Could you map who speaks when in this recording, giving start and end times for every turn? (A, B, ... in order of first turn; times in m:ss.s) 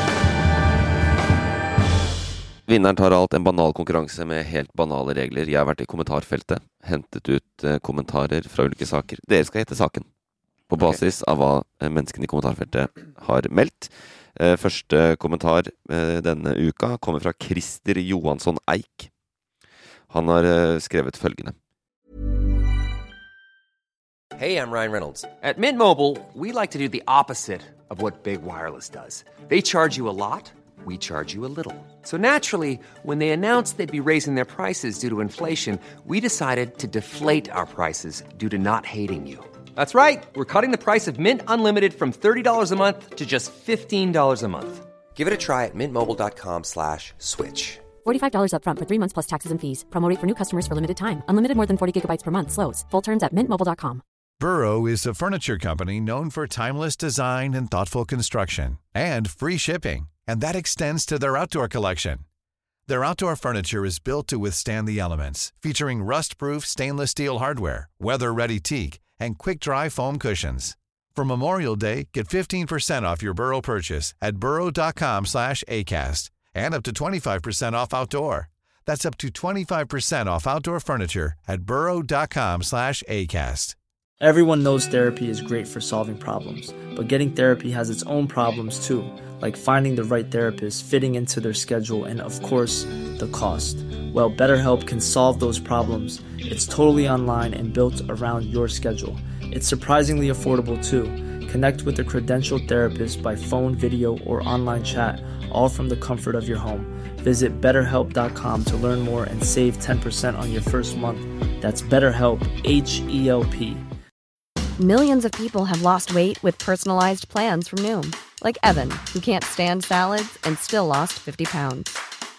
0:02.7-0:10.1 A
0:10.7-0:19.1 A
0:20.1-0:21.5 A
0:24.4-0:47.8 B
0:48.0-0:54.0 C
0:54.4-1:02.2 D
1:02.9-1:23.8 D
1:24.2-1:53.8 E
1:54.8-2:02.0 F